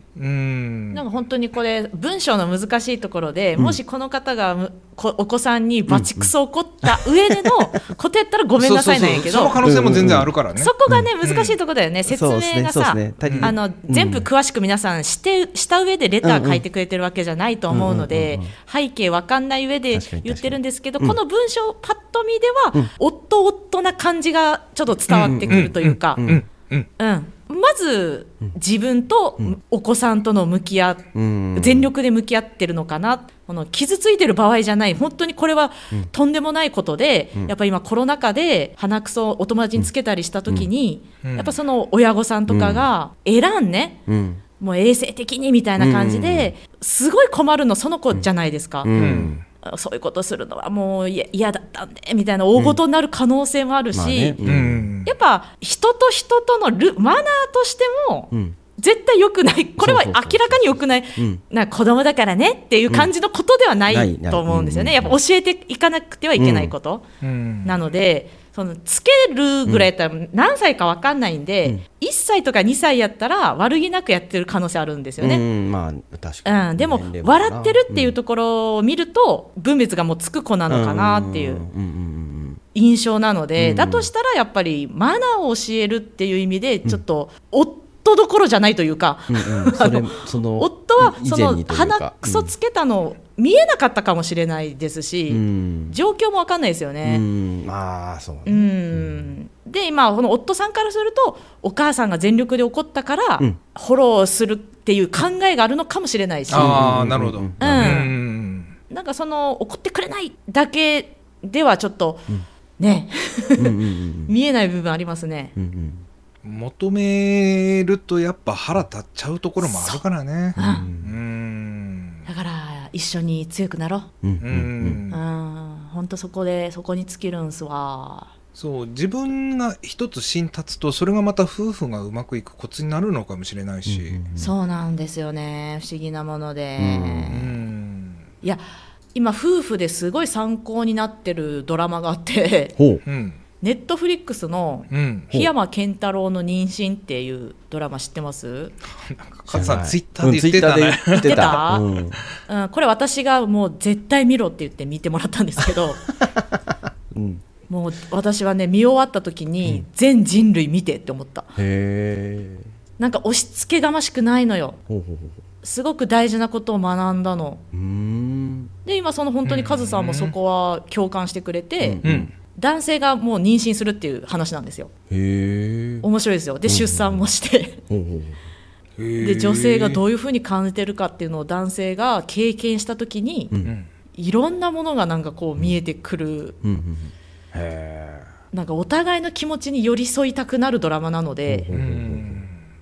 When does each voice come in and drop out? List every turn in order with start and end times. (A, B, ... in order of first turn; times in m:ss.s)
0:00.2-0:01.0 A
0:00.9-0:26.3 B
0:05.9-0:06.3 C
0:06.8-0:07.5 C
0:08.6-0:11.6 A
0:09.6-0:10.3 C
0:12.0-0:14.3 C
0:13.2-0:13.5 A
0:16.2-0:16.6 C
0:17.7-0:18.5 C
0:19.9-0:21.2 C
0:25.1-0:26.9 A
0:25.2-0:26.4 C
0:27.0-0:44.0 B
0:31.1-0:31.9 C
0:41.2-0:41.5 A
0:42.5-0:42.9 C
0:44.1-0:44.4 C
0:44.6-0:48.9 B
0:45.8-0:46.5 C
0:48.8-0:49.4 C
0:48.9-0:49.3 A
0:49.6-0:54.4 B
0:53.9-0:54.9 C
0:54.4-0:55.1 A
0:55.0-1:07.0 B
0:58.3-0:58.6 C
0:59.8-1:01.4 C
1:03.9-1:05.2 C
1:06.4-1:06.7 C
1:07.2-1:07.8 A
1:07.6-1:15.4 B
1:15.2-1:18.2 C
1:16.4-1:21.6 B
1:20.7-1:22.6 C
1:22.7-1:37.2 B
1:23.6-1:24.1 C
1:29.3-1:32.5 C
1:35.3-1:36.0 C
1:37.0-1:39.3 C
1:38.4-1:46.9 B
1:46.5-1:48.7 A
1:46.5-1:48.0 C
1:47.6-1:48.2 B
1:48.9-1:55.5 B
1:53.6-1:54.3 C
1:55.6-1:56.0 C
1:56.4-2:02.2 A
1:59.6-2:00.0 B
2:00.6-2:00.9 B
2:00.6-2:01.2 C
2:02.2-2:04.1 B
2:04.2-2:05.0 C
2:04.4-2:05.2 A
2:05.1-2:08.3 B
2:08.6-2:14.2 A
2:13.8-2:14.5 C
2:14.4-2:17.5 B
2:16.8-2:17.5 C
2:17.3-2:18.2 A
2:19.1-2:22.8 B
2:22.8-2:23.0 C
2:23.0-2:23.4 A
2:23.6-2:28.7 B
2:24.9-2:25.3 A
2:29.0-2:31.6 A
2:29.5-2:32.2 C
2:31.1-2:31.9 B
2:32.5-2:36.0 B
2:37.1-2:37.4 C
2:37.7-2:41.5 B
2:41.6-2:42.7 C
2:43.0-2:44.8 B
2:44.9-2:45.4 C
2:45.6-2:47.6 B
2:47.7-2:48.7 C
2:48.8-2:52.0 B
2:49.4-2:50.3 A
2:51.8-2:52.3 C
2:52.0-2:52.3 A
2:52.5-2:54.9 B
2:55.1-2:56.1 C
2:56.0-2:57.8 B
2:56.6-2:57.3 C
2:57.9-2:58.4 C
2:59.0-3:00.0 A
2:59.2-3:03.5 B
3:04.1-3:06.6 B
3:06.6-3:08.2 C
3:08.5-3:11.7 B
3:11.5-3:12.4 C
3:11.7-3:12.6 A